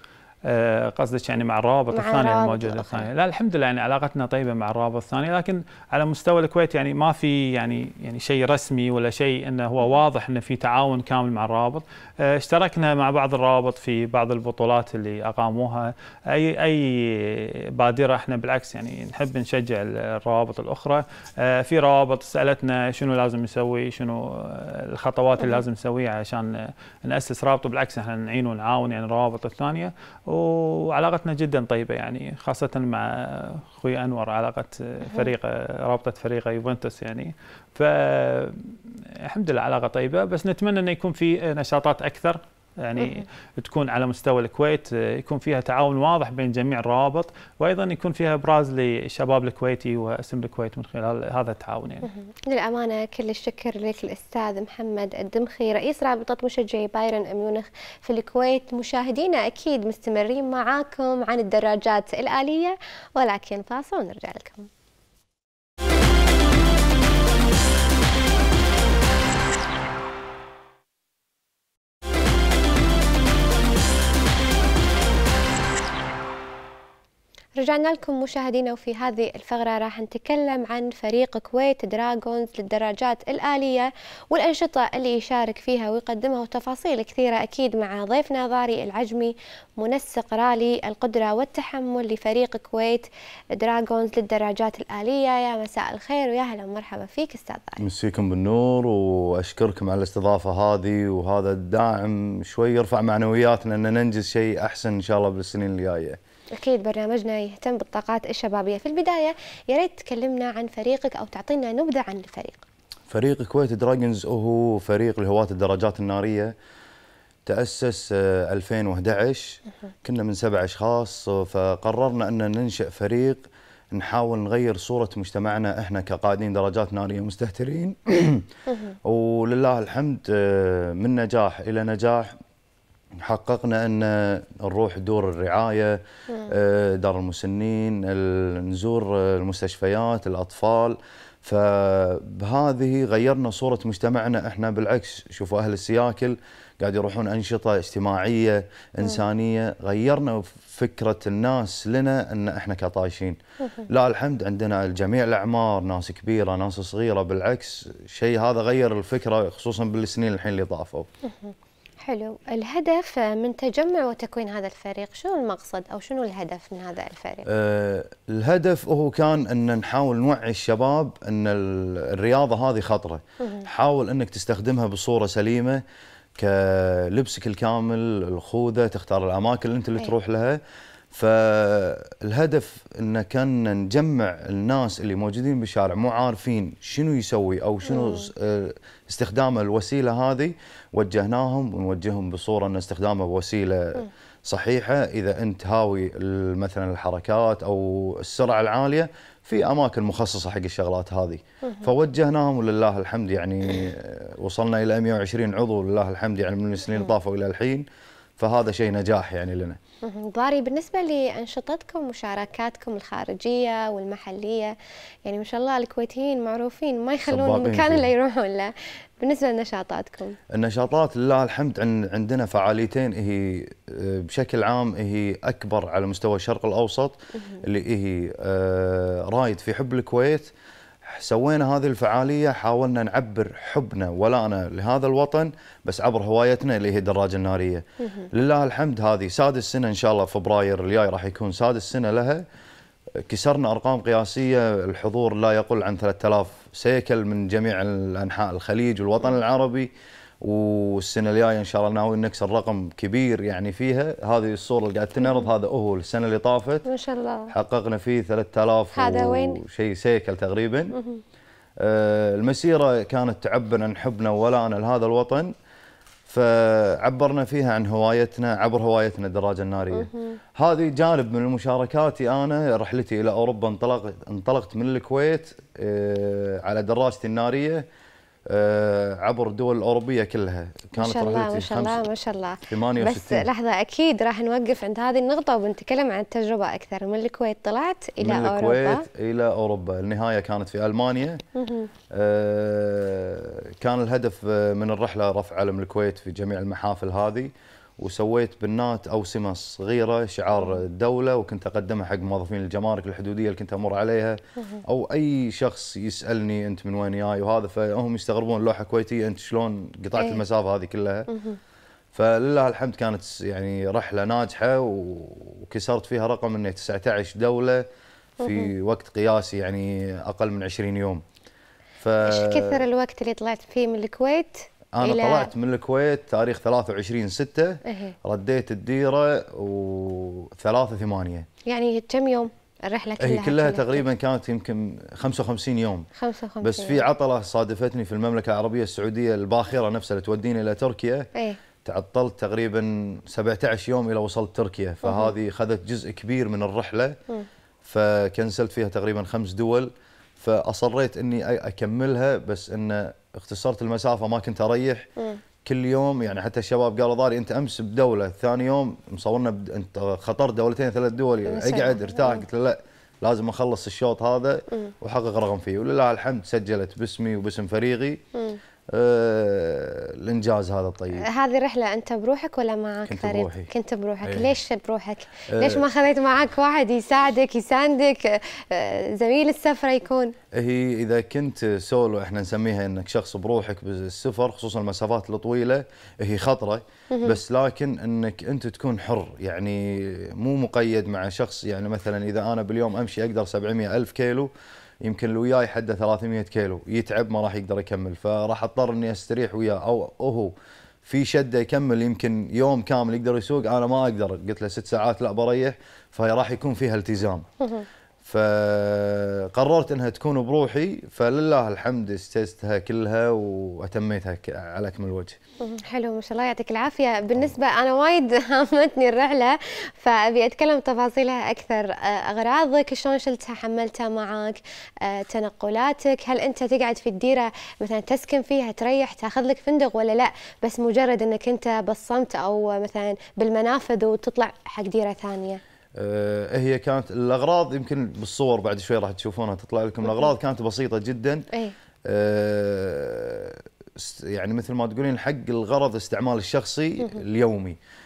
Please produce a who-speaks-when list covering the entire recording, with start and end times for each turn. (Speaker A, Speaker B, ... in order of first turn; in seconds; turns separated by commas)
Speaker A: 0.4-52.1, Speaker B: 1.9-3.1, Speaker B: 43.0-43.2, Speaker B: 52.0-64.7, Speaker B: 77.6-97.8, Speaker C: 97.8-106.2, Speaker B: 106.5-112.6, Speaker C: 113.1-116.5, Speaker C: 117.5-128.5, Speaker C: 129.0-132.3, Speaker C: 133.2-161.1, Speaker B: 161.3-167.4, Speaker C: 167.4-175.8, Speaker C: 176.4-180.6, Speaker C: 181.1-207.9, Speaker B: 187.9-188.2, Speaker C: 208.4-209.8, Speaker B: 210.0-220.4, Speaker C: 217.3-218.1, Speaker C: 220.5-230.5, Speaker C: 231.1-242.4, Speaker B: 238.0-238.3, Speaker C: 243.2-249.9, Speaker C: 250.4-256.9, Speaker B: 256.9-257.5, Speaker C: 257.5-260.9, Speaker B: 258.9-259.6, Speaker B: 260.9-261.2, Speaker C: 261.8-265.5, Speaker C: 266.3-277.9, Speaker B: 269.9-270.4, Speaker C: 278.5-282.1, Speaker B: 281.0-289.0, Speaker C: 282.6-283.5, Speaker C: 288.2-291.4, Speaker B: 291.6-291.9, Speaker C: 292.1-311.3, Speaker B: 304.6-304.8, Speaker B: 311.3-311.6, Speaker C: 312.1-317.9, Speaker B: 318.4-318.7, Speaker C: 318.4-321.2, Speaker C: 322.0-322.8, Speaker B: 322.2-325.5, Speaker C: 324.9-331.4, Speaker B: 327.9-328.1, Speaker B: 331.6-334.0, Speaker C: 333.2-336.1, Speaker B: 336.2-337.0, Speaker C: 336.6-341.3, Speaker C: 341.8-347.2, Speaker B: 345.0-345.3, Speaker C: 347.9-355.1, Speaker C: 355.6-368.2, Speaker B: 361.5-362.4, Speaker C: 368.9-371.3, Speaker B: 371.1-380.3, Speaker C: 373.1-373.7, Speaker C: 374.2-374.5, Speaker C: 375.5-375.9, Speaker C: 380.5-394.5, Speaker B: 387.1-387.4, Speaker C: 395.0-400.5, Speaker C: 401.0-407.4, Speaker B: 407.6-407.9, Speaker C: 408.2-415.4, Speaker B: 415.6-435.6, Speaker C: 435.9-441.4, Speaker C: 442.1-447.8